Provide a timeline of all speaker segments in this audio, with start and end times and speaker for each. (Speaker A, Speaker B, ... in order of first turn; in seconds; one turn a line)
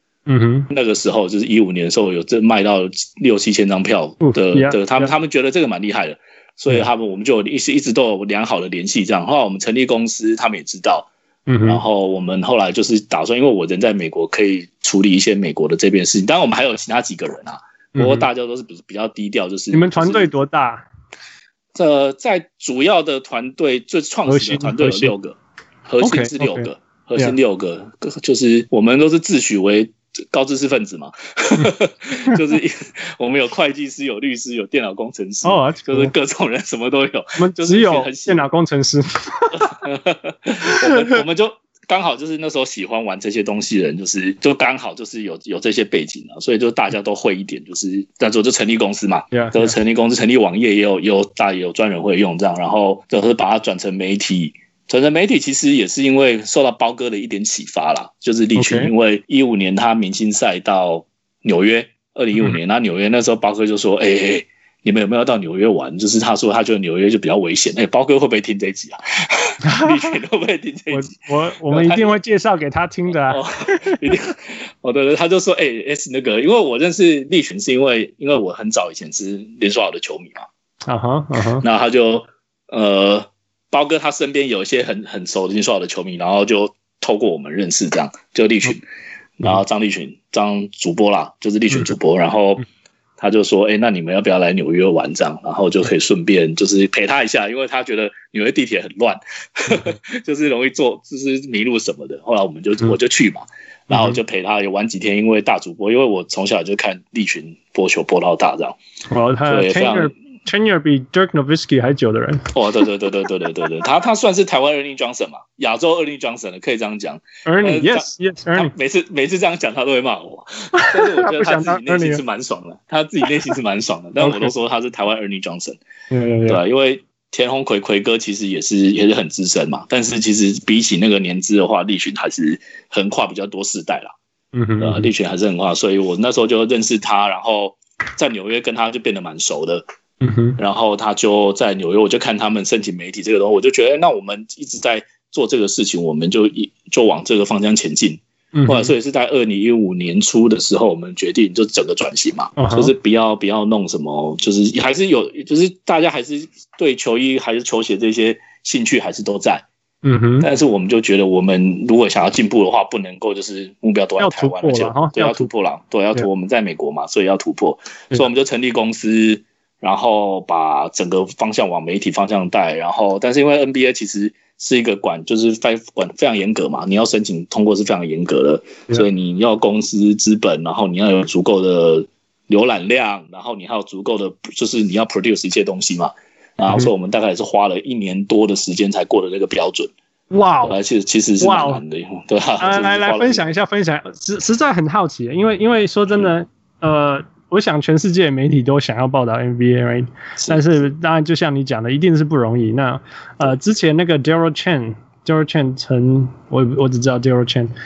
Speaker A: 0.3-0.7
Speaker B: 0.7-11.1
Speaker A: 4.2-5.1
Speaker A: 11.5-11.8
Speaker B: 11.6-20.3
Speaker A: 17.9-18.3
Speaker A: 19.7-20.9
Speaker B: 21.8-38.4
Speaker A: 24.3-25.1
Speaker A: 26.0-27.4
Speaker A: 35.4-36.1
Speaker A: 37.4-39.6
Speaker B: 39.5-71.1
Speaker A: 49.3-49.8
Speaker A: 58.6-58.9
Speaker A: 69.7-70.1
Speaker A: 70.9-73.9
Speaker B: 71.7-72.2
Speaker B: 73.2-80.5
Speaker A: 80.9-81.7
Speaker B: 81.6-88.8
Speaker B: 89.4-92.7
Speaker B: 93.2-108.8
Speaker A: 103.9-104.2
Speaker A: 109.1-112.5
Speaker B: 109.5-110.1
Speaker B: 112.5-125.8
Speaker A: 117.5-118.7
Speaker A: 120.7-122.2
Speaker A: 124.2-124.5
Speaker A: 126.1-126.6
Speaker B: 126.5-134.1
Speaker A: 134.5-135.1
Speaker B: 134.8-139.8
Speaker A: 140.2-140.6
Speaker B: 140.6-159.7
Speaker A: 148.6-148.9
Speaker A: 152.6-152.9
Speaker A: 160.0-160.5
Speaker B: 160.4-189.9
Speaker A: 164.2-165.5
Speaker A: 190.3-190.8
Speaker B: 190.7-193.5
Speaker A: 191.4-191.8
Speaker A: 192.6-207.7
Speaker B: 200.4-200.6